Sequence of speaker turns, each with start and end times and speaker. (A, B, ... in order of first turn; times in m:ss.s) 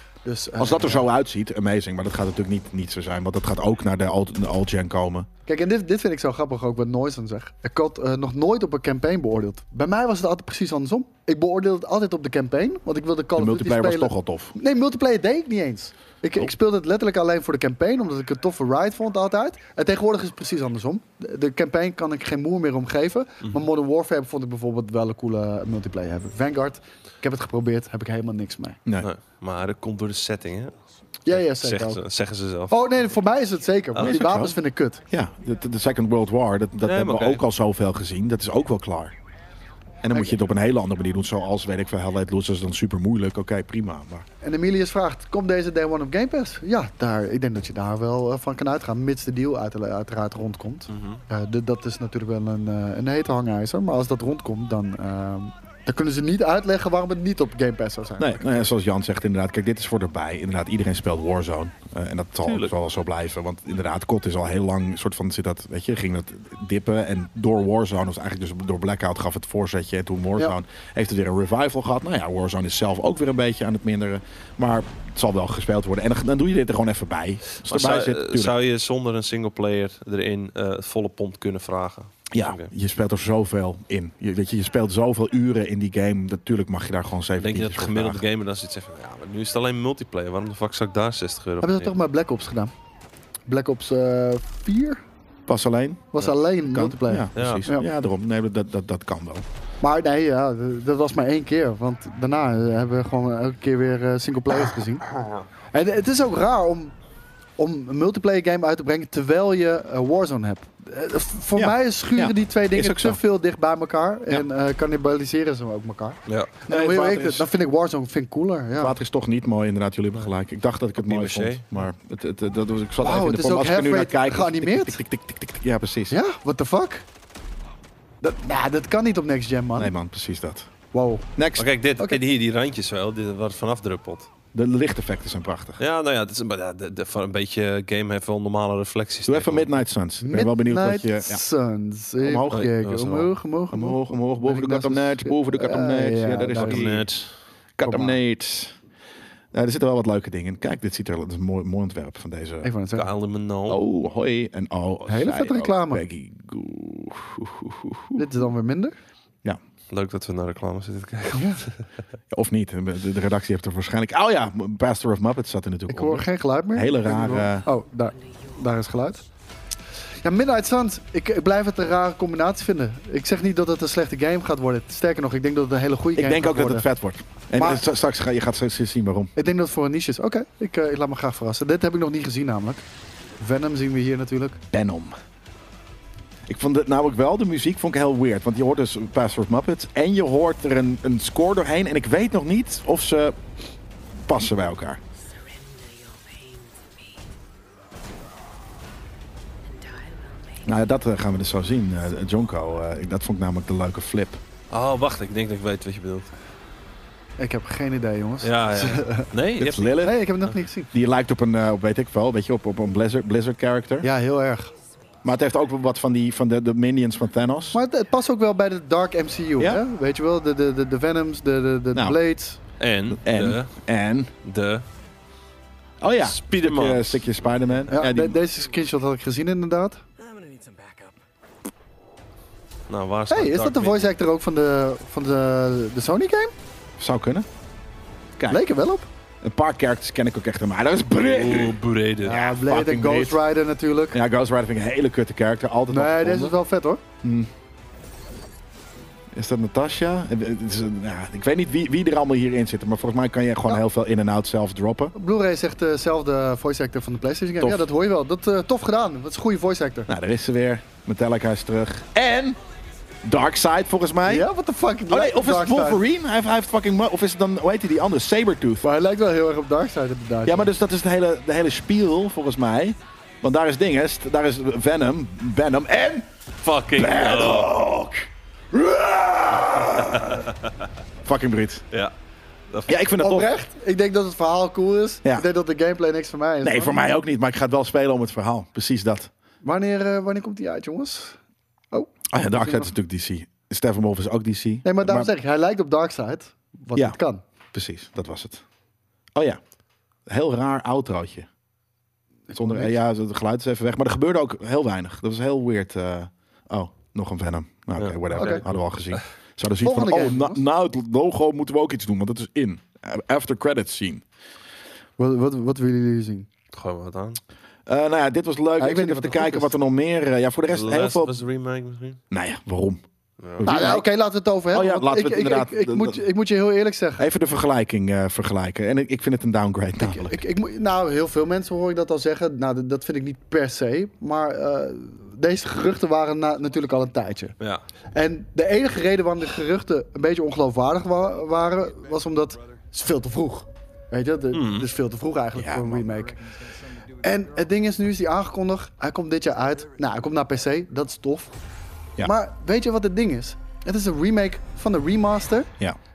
0:00.2-0:01.0 A
0:00.6-0:05.3 B
0:05.5-0:28.8 A
0:13.4-0:14.5 B
0:29.0-0:30.7 C
0:31.2-0:32.0 A
0:31.3-0:32.8 C
0:32.7-0:35.0 A
0:34.0-0:34.6 B
0:35.1-0:39.1 B
0:36.8-0:37.4 C
0:40.0-0:44.2 B
0:44.4-0:58.6 A
0:50.9-0:51.2 C
0:58.2-1:18.5 B
1:02.4-1:02.7 C
1:17.6-1:22.7 C
1:22.3-1:28.2 B
1:27.4-1:31.9 C
1:31.6-1:32.7 A
1:33.5-1:35.0 A
1:35.5-1:39.4 B
1:36.1-1:37.9 A
1:37.3-1:37.6 C
1:39.8-1:45.0 A
1:45.7-1:46.9 A
1:47.6-1:59.0 A
1:51.5-1:53.2 B
1:56.2-1:56.5 C
1:56.7-1:57.5 B
1:58.8-2:06.2 B
2:01.0-2:01.6 C
2:03.0-2:05.0 A
2:06.1-2:07.0 A
2:08.2-2:09.9 A
2:09.8-2:10.7 B
2:10.9-2:11.3 A
2:11.4-2:11.7 B
2:11.6-2:14.3 C
2:14.5-2:15.8 B
2:15.8-2:19.7 C
2:19.2-2:21.4 B
2:20.2-2:27.0 A
2:22.2-2:22.7 B
2:22.5-2:23.3 C
2:23.7-2:27.1 B
2:26.5-2:27.4 C
2:27.8-2:28.7 B
2:27.8-2:28.2 A
2:29.5-2:32.7 B
2:32.6-2:33.1 A
2:32.9-2:33.8 C
2:33.7-2:38.3 B
2:35.1-2:36.0 A
2:38.2-2:39.0 A
2:39.9-2:41.8 C
2:41.3-2:41.6 A
2:42.3-2:47.6 B
2:45.9-2:49.2 A
2:48.0-2:48.7 D
2:50.2-2:56.9 A
2:56.2-2:59.3 B
2:57.6-2:57.8 A
2:59.4-3:02.8 A
3:03.4-3:04.6 A
3:04.7-3:05.2 B
3:06.4-3:13.4 B
3:14.2-3:15.0 B
3:15.3-3:17.2 D
3:19.6-3:20.8 D
3:20.6-3:24.4 B
3:24.7-3:26.3 C
3:27.4-3:29.3 A
3:28.4-3:30.5 C
3:29.6-3:30.2 B
3:30.0-3:30.9 A
3:30.9-3:34.1 B
3:34.0-3:34.7 A
3:35.2-3:37.8 B
3:37.7-3:42.6 A
3:39.6-3:39.8 B
3:41.9-3:42.2 B
3:42.8-3:43.7 C
3:43.1-3:44.3 B
3:44.4-3:44.8 C
3:46.0-3:48.4 B
3:46.2-3:47.2 C
3:47.9-3:50.0 A
3:50.2-3:51.2 D
3:52.9-3:54.2 C
3:53.3-3:56.5 A
3:57.0-3:57.5 B
3:58.4-3:58.6 B
3:58.5-3:59.1 A
3:59.4-4:03.4 B
4:01.2-4:02.4 C
4:02.2-4:04.2 A
4:04.1-4:06.6 B
4:05.9-4:07.0 A
4:07.2-4:07.5 B
4:09.3-4:15.1 B
4:15.1-4:20.1 A
4:17.6-4:17.9 B
4:20.1-4:22.6 B
4:23.2-4:24.5 B
4:24.2-4:26.0 A
4:25.1-4:28.9 B
4:28.8-4:30.7 A
4:30.4-4:36.3 B
4:36.6-4:37.7 C
4:36.9-4:40.4 B
4:39.8-4:40.6 C
4:41.2-4:41.8 B
4:42.7-4:43.0 C
4:42.9-4:43.5 B
4:43.2-4:47.0 A
4:46.6-4:49.3 B
4:49.6-4:51.4 A
4:51.9-4:52.9 A
4:52.3-4:55.3 B
4:54.8-4:57.4 A
4:57.7-4:58.6 B
4:59.3-4:59.6 B
5:00.3-5:01.5 B
5:02.5-5:03.0 A
5:02.5-5:14.2 B
5:08.0-5:09.2 C
5:08.3-5:08.6 A
5:09.8-5:10.6 A
5:15.2-5:16.5 A
5:16.7-5:17.4 C
5:17.9-5:21.4 B
5:18.8-5:19.7 A
5:20.7-5:22.2 C
5:22.3-5:23.0 B
5:23.4-5:23.7 C
5:23.6-5:24.1 B
5:23.6-5:27.2 A
5:24.7-5:26.2 B
5:27.2-5:30.4 B
5:30.0-5:37.6 A
5:38.1-5:46.4 A
5:44.5-5:44.9 C
5:45.5-5:46.0 B
5:47.2-5:51.6 A
5:52.2-5:55.7 A